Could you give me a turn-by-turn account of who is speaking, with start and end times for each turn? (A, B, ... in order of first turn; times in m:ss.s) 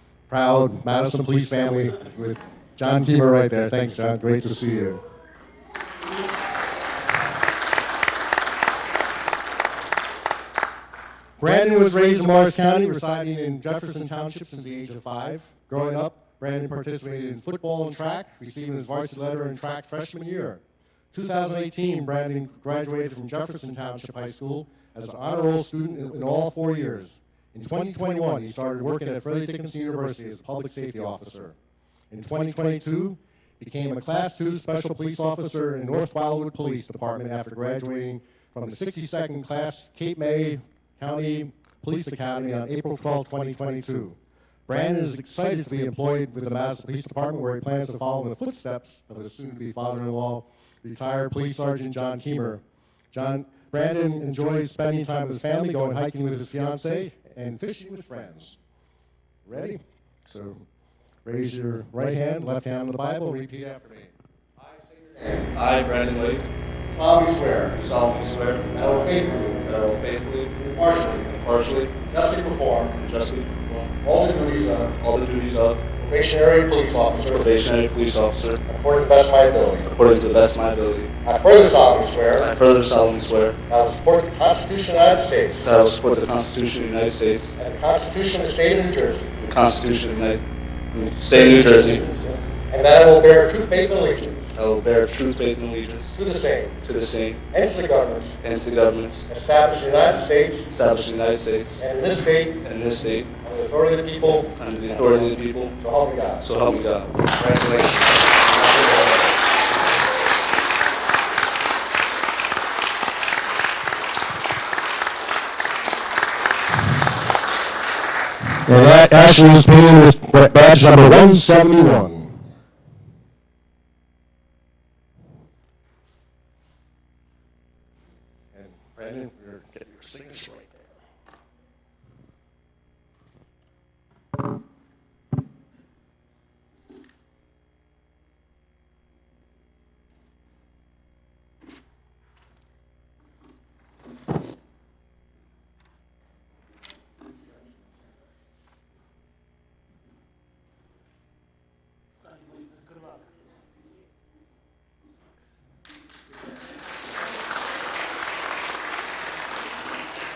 0:00.3-0:05.0 A
0:11.4-0:20.6 A
0:21.1-0:31.6 A
0:32.1-0:52.6 A
0:53.1-0:58.6 A
0:59.4-1:00.6 A
1:01.2-1:05.5 A
1:05.5-1:06.4 B
1:06.9-1:07.7 A
1:07.7-1:08.8 B
1:08.7-1:10.0 A
1:09.7-1:10.6 B
1:10.5-1:11.3 A
1:11.2-1:11.9 B
1:12.0-1:13.0 A
1:12.9-1:13.9 B
1:14.0-1:14.9 A
1:15.0-1:15.8 B
1:16.0-1:17.5 A
1:17.3-1:18.6 B
1:18.6-1:19.9 A
1:19.8-1:21.1 B
1:21.2-1:22.5 A
1:22.3-1:23.6 B
1:23.7-1:25.7 A
1:25.6-1:27.5 B
1:27.6-1:29.3 A
1:29.4-1:30.4 B
1:30.9-1:32.0 B
1:31.3-1:34.5 A
1:34.6-1:36.1 B
1:36.1-1:36.8 A
1:36.8-1:37.4 B
1:37.5-1:38.4 A
1:38.4-1:39.2 B
1:39.3-1:40.7 A
1:40.7-1:41.8 B
1:41.8-1:42.6 A
1:42.6-1:43.3 B
1:43.4-1:46.4 A
1:44.5-1:45.7 B
1:46.4-1:48.0 B
1:48.5-1:49.3 A
1:58.6-2:02.4 A
2:08.5-2:10.8 A